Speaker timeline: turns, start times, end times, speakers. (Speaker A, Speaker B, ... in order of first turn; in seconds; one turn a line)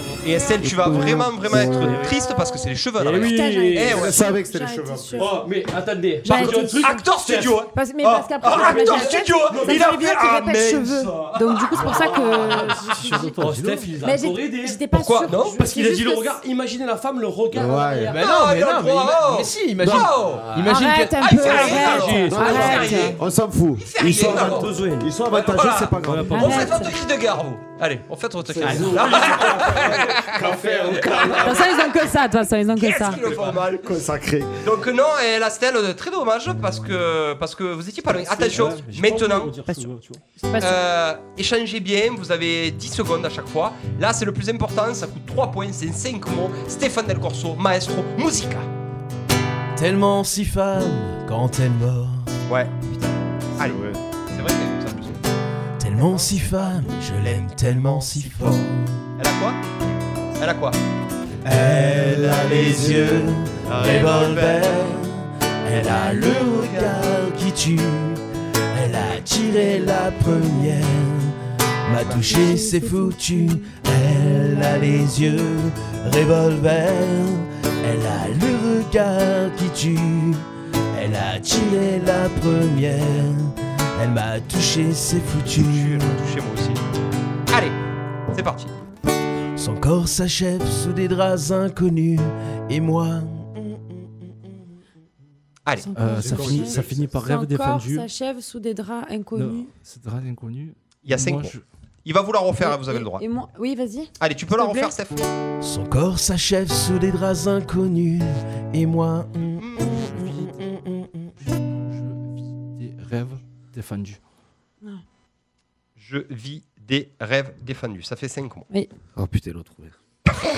Speaker A: 0.2-4.2
Speaker B: 0.6-2.0
Speaker C: 1.6-2.1
Speaker C: 3.0-4.2
Speaker D: 3.1-5.4
Speaker B: 4.0-5.4
Speaker C: 5.2-7.6
Speaker D: 6.2-7.0
Speaker A: 6.2-11.6
Speaker D: 7.7-13.3
Speaker C: 8.9-9.9
Speaker C: 11.1-14.8
Speaker E: 12.6-13.9
Speaker D: 14.0-16.4
Speaker A: 14.9-15.6
Speaker C: 15.4-18.2
Speaker B: 17.5-18.1
Speaker F: 18.0-21.8
Speaker A: 18.2-20.5
Speaker B: 19.8-20.3
Speaker C: 20.3-20.8
Speaker D: 20.6-23.2
Speaker A: 21.2-23.2
Speaker C: 21.4-23.1
Speaker B: 22.3-26.7
Speaker A: 23.8-24.7
Speaker C: 24.0-25.1
Speaker A: 25.3-30.4
Speaker C: 26.0-26.7
Speaker D: 26.3-27.0
Speaker B: 28.4-31.9
Speaker C: 28.6-31.5
Speaker A: 31.1-31.4
Speaker D: 31.3-33.2
Speaker A: 32.8-33.9
Speaker B: 33.2-34.6
Speaker A: 34.6-39.5
Speaker E: 38.1-40.2
Speaker D: 39.6-40.8
Speaker A: 40.6-48.6
Speaker F: 49.8-52.3
Speaker A: 52.5-52.7
Speaker A: 53.5-55.2
Speaker B: 53.6-54.0
Speaker F: 55.8-59.0
Speaker A: 55.9-59.6
Speaker A: 60.4-60.8
Speaker F: 61.5-68.2
Speaker B: 61.6-63.3
Speaker A: 61.7-63.0
Speaker A: 63.6-65.0
Speaker A: 66.4-66.8
Speaker F: 68.7-86.1
Speaker D: 72.2-73.8
Speaker D: 74.4-75.3
Speaker A: 85.5-86.8
Speaker A: 87.5-87.8
Speaker A: 88.3-88.8
Speaker F: 89.5-93.9
Speaker A: 95.7-95.9
Speaker D: 95.8-99.7
Speaker E: 95.9-98.0
Speaker B: 96.1-97.2
Speaker E: 99.3-101.6
Speaker A: 101.0-103.2
Speaker D: 102.6-104.9
Speaker A: 104.2-105.2
Speaker F: 105.6-111.3
Speaker A: 109.6-110.0
Speaker E: 110.1-110.5
Speaker E: 111.4-114.2
Speaker A: 116.0-118.7
Speaker B: 119.2-119.9